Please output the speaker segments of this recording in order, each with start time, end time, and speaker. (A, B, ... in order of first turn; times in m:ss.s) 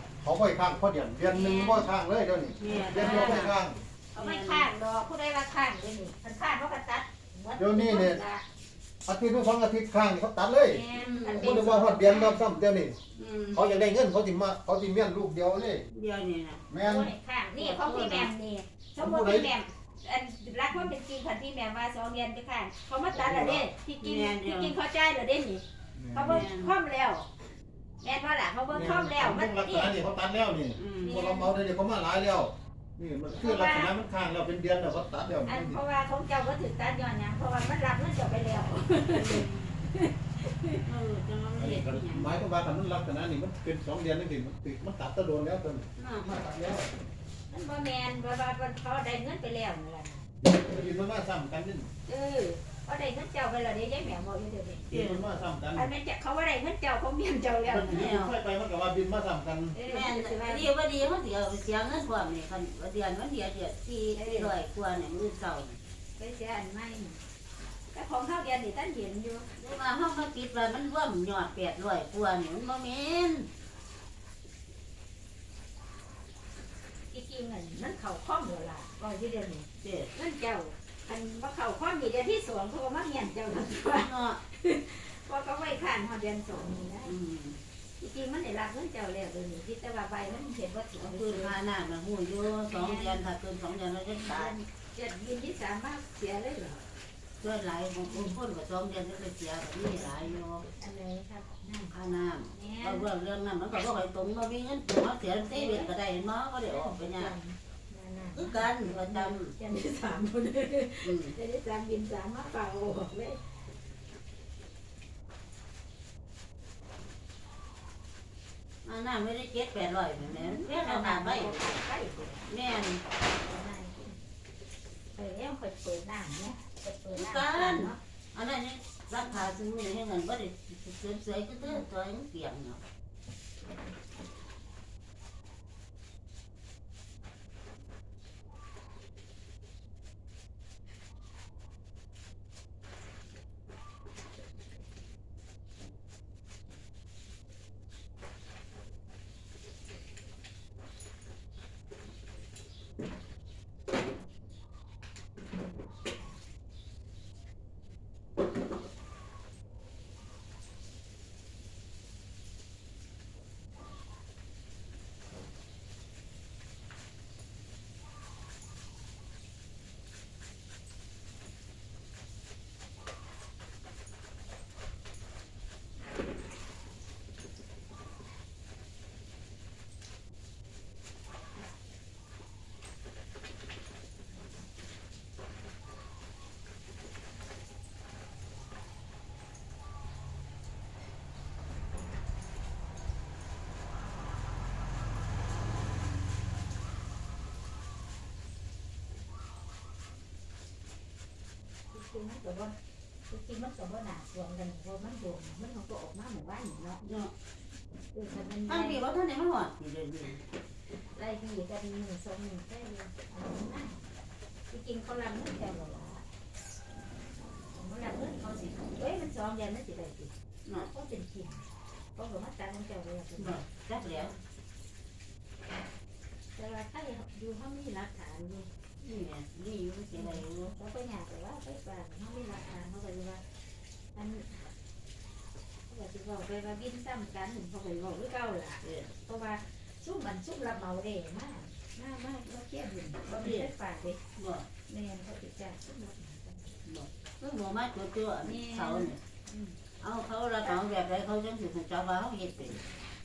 0:00.2-0:03.8 A
0:01.3-0:01.9 B
0:02.6-0:03.5 C
0:02.7-0:03.5 B
0:04.1-0:08.4 B
0:04.2-0:04.7 C
0:07.6-0:08.2 A
0:09.0-0:13.0 A
0:10.6-0:12.4 B
0:10.9-0:11.7 C
0:13.2-0:13.6 C
0:13.5-0:15.9 A
0:15.9-0:16.6 C
0:16.7-0:17.1 A
0:16.8-0:27.3 B
0:17.5-0:18.3 C
0:19.0-0:19.5 A
0:23.1-0:23.6 A
0:24.0-0:24.7 C
0:26.0-0:26.5 A
0:26.2-0:26.7 C
0:28.0-0:29.9 B
0:28.7-0:35.8 A
0:30.8-0:31.2 C
0:31.0-0:31.5 B
0:33.4-0:33.9 B
0:35.5-0:40.8 B
0:39.1-0:39.8 C
0:40.8-0:42.4 C
0:41.6-0:46.9 A
0:46.0-0:46.3 C
0:47.5-0:50.2 B
0:50.4-0:51.9 A
0:52.1-0:54.9 B
0:54.9-0:55.9 A
0:54.9-0:55.2 C
0:55.7-0:58.1 B
0:57.7-0:59.7 A
0:57.7-0:58.3 C
0:59.7-1:00.7 B
0:59.8-1:05.8 C
1:04.2-1:04.5 B
1:06.2-1:07.2 B
1:07.9-1:09.4 B
1:09.6-1:13.5 C
1:17.1-1:27.2 B
1:19.8-1:20.1 C
1:23.9-1:24.4 C
1:27.0-1:27.6 C
1:28.0-1:31.5 B
1:30.9-1:34.6 C
1:32.7-1:33.2 B
1:34.2-1:36.8 B
1:37.4-1:40.6 C
1:38.0-1:38.4 B
1:40.7-1:41.9 B
1:41.9-1:47.3 C
1:42.5-1:43.1 B
1:45.5-1:45.9 B
1:46.7-1:53.4 B
1:48.3-1:49.5 C
1:51.0-1:51.4 C
1:58.8-2:01.6 C
2:00.2-2:02.5 B
2:02.5-2:03.0 C
2:03.3-2:04.2 B
2:05.1-2:08.0 B
2:07.1-2:12.8 C
3:21.9-3:22.7 B
3:23.3-3:27.0 B
3:27.0-3:27.3 C
3:28.1-3:29.0 B
3:28.7-3:30.4 C
3:31.1-3:34.0 B
3:34.7-3:36.2 B
3:37.7-3:44.4 B
3:43.4-3:44.3 C
3:46.6-3:48.7 B
3:49.0-3:50.7 C
3:50.1-3:53.4 B
3:54.1-3:54.7 B
3:55.9-4:04.2 B
3:58.8-3:59.1 C
4:03.3-4:03.7 C
4:04.4-4:04.7 C
4:04.9-4:06.8 B
4:06.8-4:09.2 C
4:08.4-4:09.8 B
4:10.0-4:12.8 C